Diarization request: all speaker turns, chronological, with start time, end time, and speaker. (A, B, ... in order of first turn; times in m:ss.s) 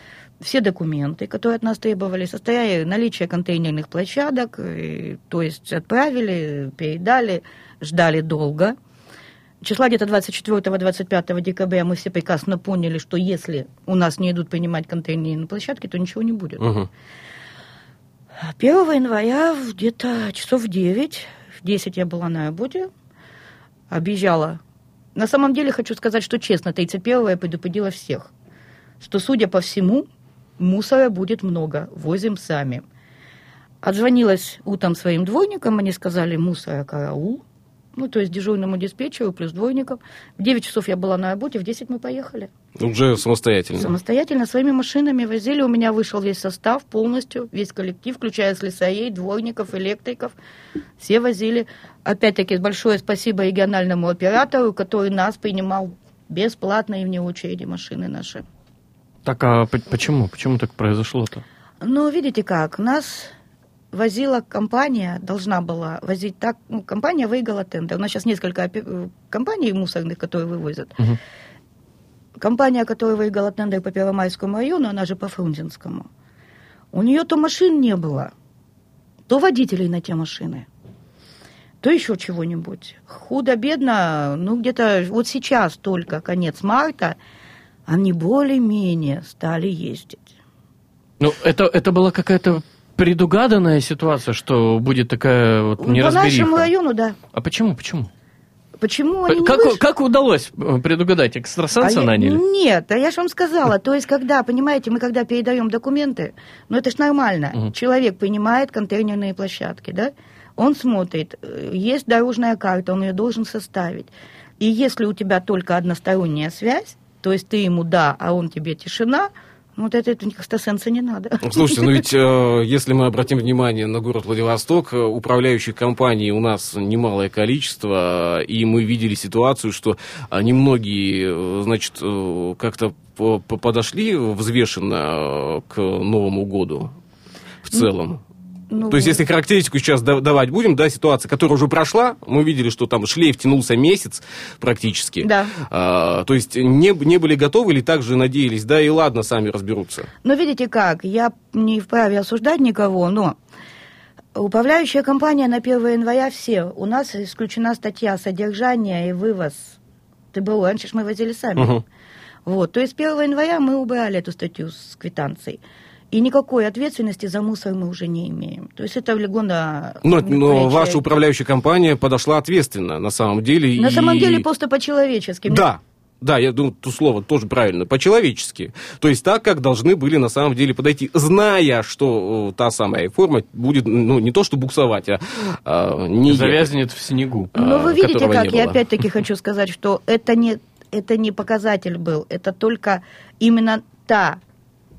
0:00.4-0:08.8 A
0:09.6-0:16.7 A
0:16.6-0:16.9 B
0:18.5-0:22.9 A
0:23.9-0:24.6 A
0:25.1-0:28.3 A
0:29.0-0:30.1 A
0:30.6-0:32.8 A
0:33.8-0:37.4 A
0:38.0-0:42.5 A
0:42.8-0:43.9 B
0:43.8-0:50.3 A
0:51.0-0:58.4 A
0:59.2-1:01.4 C
1:01.8-1:03.3 A
1:03.9-1:11.0 A
1:12.4-1:16.1 A
1:16.9-1:18.3 A
1:19.3-1:20.7 A
1:21.8-1:27.2 A
1:27.9-1:30.2 A
1:31.2-1:36.7 C
1:35.8-1:37.2 A
1:37.3-1:38.1 C
1:38.8-1:39.8 A
1:39.3-1:42.4 C
1:41.8-2:02.0 A
2:01.4-2:16.9 B
2:17.6-2:18.2 B
2:18.7-2:19.2 A
2:18.9-2:30.1 B
2:25.2-2:25.6 A
2:30.2-2:33.4 A
2:34.4-2:39.8 A
2:40.3-2:41.8 A
2:41.6-2:41.8 B
2:42.4-2:51.0 A
2:50.0-2:54.4 B
2:53.8-2:55.6 A
2:55.5-3:06.7 B
3:06.3-3:07.5 C
3:07.5-3:08.8 B
3:07.6-3:14.4 A